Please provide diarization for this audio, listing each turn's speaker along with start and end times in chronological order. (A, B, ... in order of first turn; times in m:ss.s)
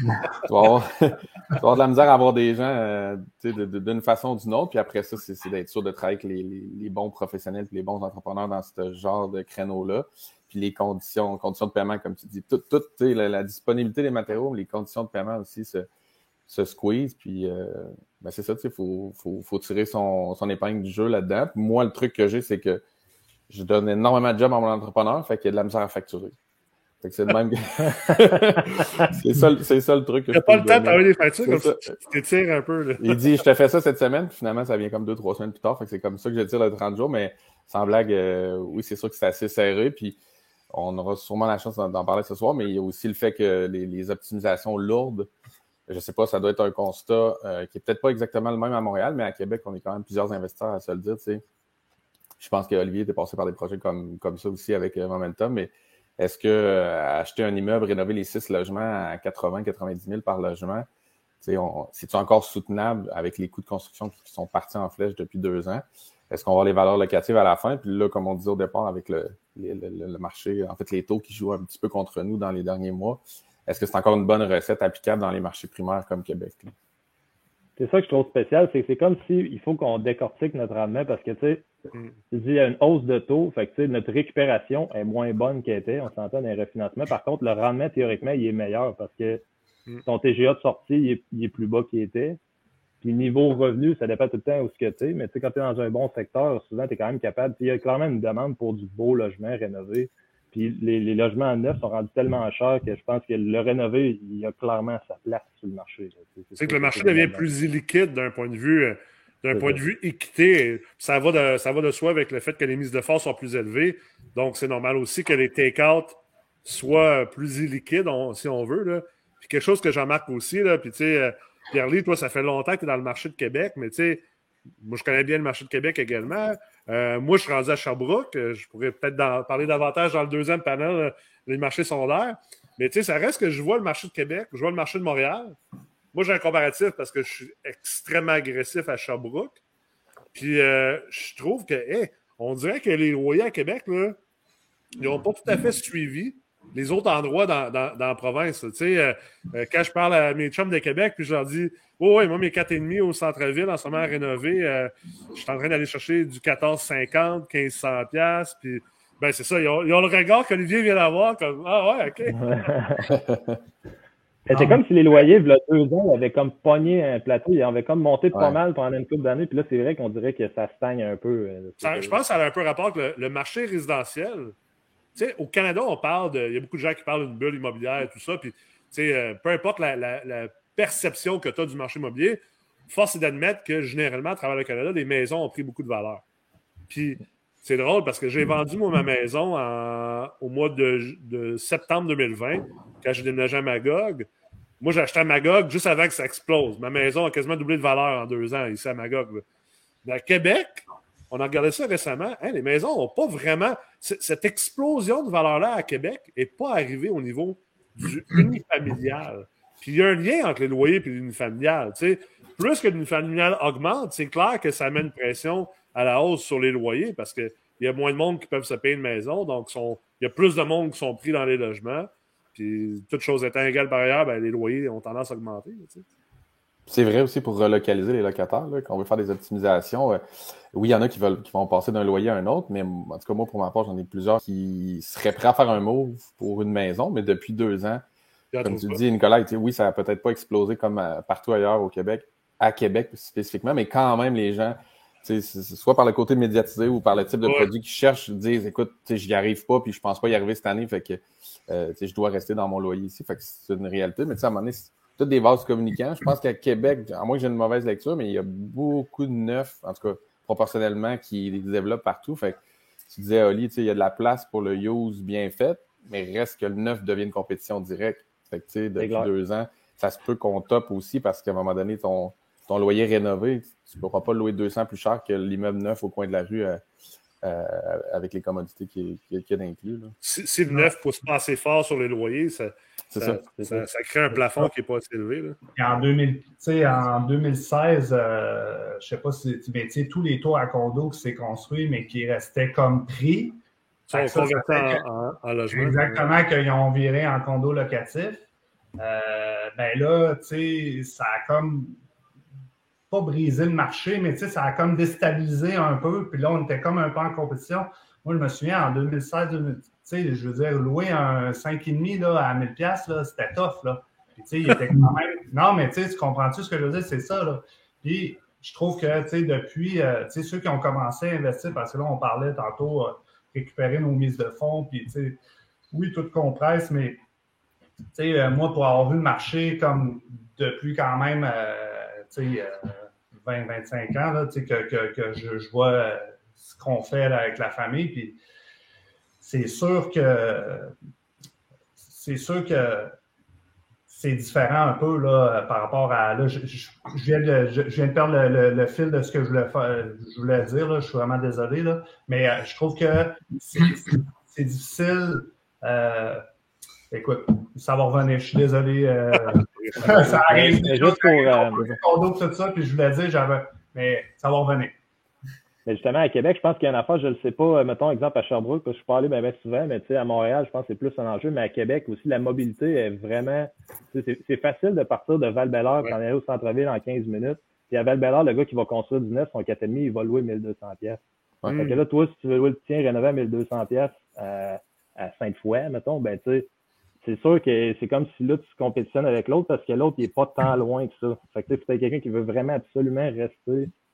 0:00.4-0:15.9 A
0:16.5-0:22.8 A
0:23.5-0:26.4 A
0:27.0-0:31.9 A
0:30.3-0:33.2 B
0:33.0-0:40.2 A
0:40.7-0:45.3 A
0:45.9-0:51.4 A
0:52.4-1:00.9 A
1:01.4-1:16.7 A
1:17.8-1:21.7 C
1:22.3-1:29.4 C
1:30.0-1:32.4 C
1:33.0-1:47.5 C
1:46.6-2:04.2 B
1:49.5-1:49.8 C
2:04.8-2:15.6 B
2:16.1-2:19.6 B
2:20.3-2:24.2 B
2:25.0-2:42.5 B
2:42.4-2:43.1 C
2:43.1-2:43.6 A
2:44.5-2:52.2 C
2:44.5-2:44.8 D
2:51.8-2:54.5 B
2:55.1-3:06.2 B
3:06.9-3:14.3 B
3:14.8-3:19.4 B
3:20.0-3:46.0 B
3:46.9-3:50.2 A
3:50.7-3:58.0 A
3:58.5-3:59.0 B
3:58.6-4:36.8 A
4:07.4-4:07.7 B
4:29.0-4:29.3 C
4:37.4-4:40.1 A
4:40.2-4:45.6 B
4:43.1-4:43.5 A
4:43.6-4:44.6 C
4:45.7-4:53.6 D
4:54.1-4:56.3 B
4:54.1-4:55.0 D
4:55.7-4:58.4 D
4:59.0-5:02.0 D
5:03.1-5:25.4 D
5:25.9-5:27.2 D
5:28.1-5:38.4 D
5:39.4-5:40.9 D
5:42.0-5:43.1 D
5:44.1-5:56.4 D
5:57.1-6:05.0 D
5:59.8-6:00.2 B
6:00.2-6:02.0 C
6:05.8-6:21.2 C
6:21.6-6:22.0 B
6:21.8-6:26.7 C
6:27.2-6:33.9 C